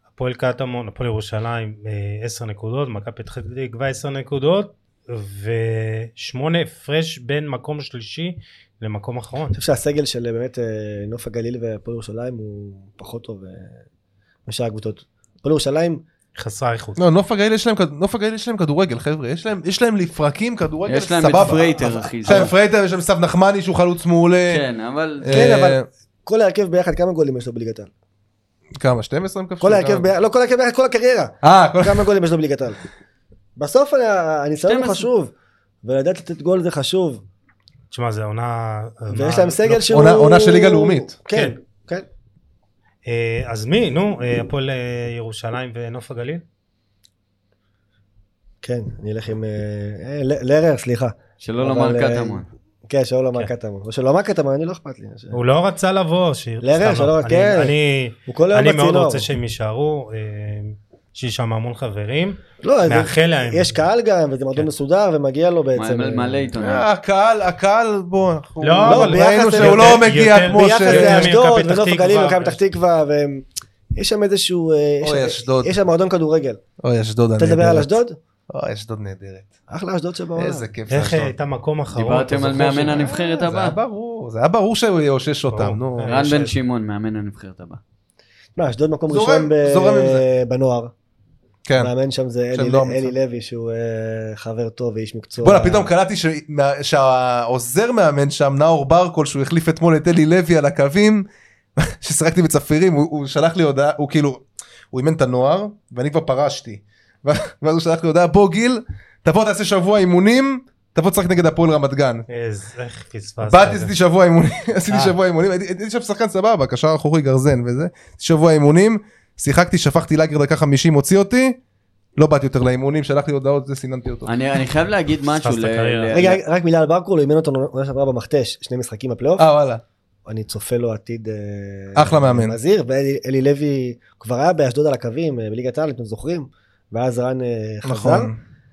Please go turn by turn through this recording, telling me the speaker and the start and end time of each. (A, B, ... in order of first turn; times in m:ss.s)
0:00.2-0:09.6 A
0:09.5-0:13.8 B
0:14.5-0:16.0 B
0:16.4-0:17.0 A
0:17.0-0:24.6 C
0:20.9-0:22.5 D
0:22.2-0:22.5 B
0:24.5-0:25.5 D
0:25.2-0:25.9 C
0:25.3-0:27.9 B
0:28.8-0:30.1 C
0:29.6-0:32.8 B
0:31.4-0:32.1 C
0:33.6-0:35.3 B
0:34.7-0:35.1 D
0:35.8-0:37.2 B
0:37.9-0:39.9 A
0:39.1-0:42.1 B
0:39.9-0:41.1 C
0:41.3-0:41.6 A
0:43.1-0:46.4 A
0:48.6-0:55.4 B
0:51.4-0:52.5 D
0:55.3-1:03.8 A
0:56.6-0:57.7 B
0:58.3-0:59.3 B
1:02.6-1:06.5 B
1:05.8-1:06.9 D
1:06.6-1:11.3 C
1:08.6-1:12.6 A
1:08.8-1:16.6 B
1:15.0-1:15.7 C
1:16.8-1:17.9 C
1:17.4-1:18.2 B
1:18.5-1:19.5 C
1:19.7-1:20.7 B
1:20.4-1:21.3 C
1:20.9-1:23.0 A
1:22.0-1:23.8 D
1:22.6-1:26.2 C
1:25.5-1:26.5 A
1:26.0-1:27.8 D
1:28.6-1:30.9 B
1:29.1-1:30.2 C
1:31.7-1:31.9 C
1:31.8-1:35.9 B
1:32.5-1:33.1 C
1:35.4-1:52.3 C
1:52.3-1:53.9 A
1:53.4-2:01.6 C
1:54.9-1:55.2 A
2:02.2-2:04.3 C
2:04.3-2:06.4 D
2:05.4-2:06.2 A
2:06.1-2:09.5 B
2:09.4-2:09.8 C
2:10.3-2:18.3 B
2:12.0-2:12.6 C
2:17.8-2:18.4 C